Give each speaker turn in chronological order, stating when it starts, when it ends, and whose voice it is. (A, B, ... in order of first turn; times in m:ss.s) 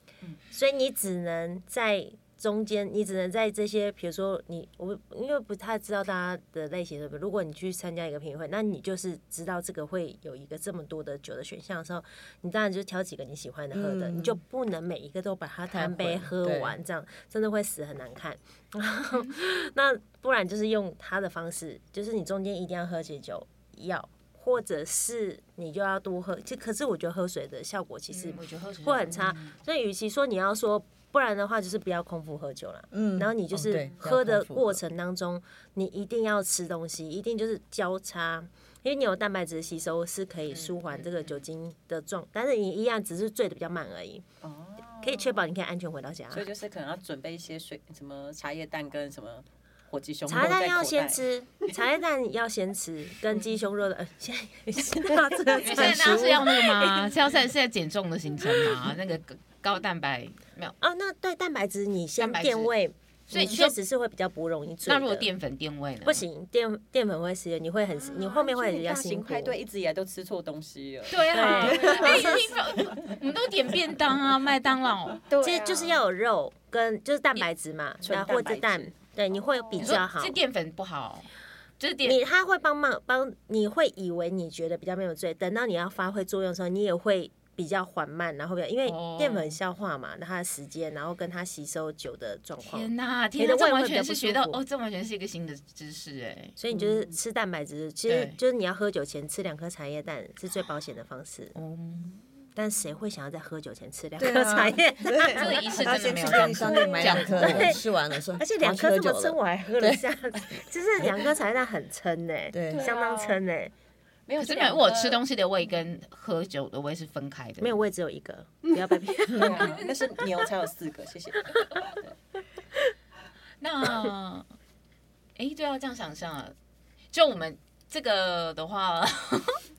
0:00.5-0:44.2 A
0:13.7-0:14.4 B
0:15.7-0:16.8 B
0:28.1-0:29.5 C
0:32.9-0:34.8 B
0:44.4-0:45.4 D
0:45.0-0:46.5 A
0:46.3-0:51.2 D
0:50.3-0:57.0 A
0:55.0-0:56.2 D
0:55.6-1:00.8 C
1:00.8-1:05.3 A
1:02.2-1:02.7 C
1:03.3-1:03.8 C
1:04.9-1:06.2 C
1:06.0-1:09.6 A
1:08.0-1:13.2 D
1:11.1-1:15.2 C
1:11.3-1:12.4 A
1:15.2-1:16.0 D
1:15.4-1:20.4 A
1:18.0-1:20.0 D
1:19.8-1:21.3 C
1:21.8-1:22.2 C
1:22.0-1:34.6 A
1:28.8-1:29.6 C
1:32.6-1:36.6 C
1:36.6-1:41.5 A
1:38.1-1:38.4 C
1:41.6-1:42.1 C
1:42.6-1:45.5 A
1:44.2-1:50.0 B
1:45.4-1:47.7 C
1:46.0-1:47.8 D
1:47.4-1:47.8 A
1:48.4-1:53.7 A
1:52.5-1:52.8 B
1:52.7-1:53.4 D
1:54.3-1:55.2 D
1:54.4-1:57.8 C
1:57.6-1:59.8 A
1:59.3-2:02.2 D
1:59.4-1:59.6 B
2:03.6-2:04.5 C
2:05.4-2:06.5 C
2:07.1-2:09.6 C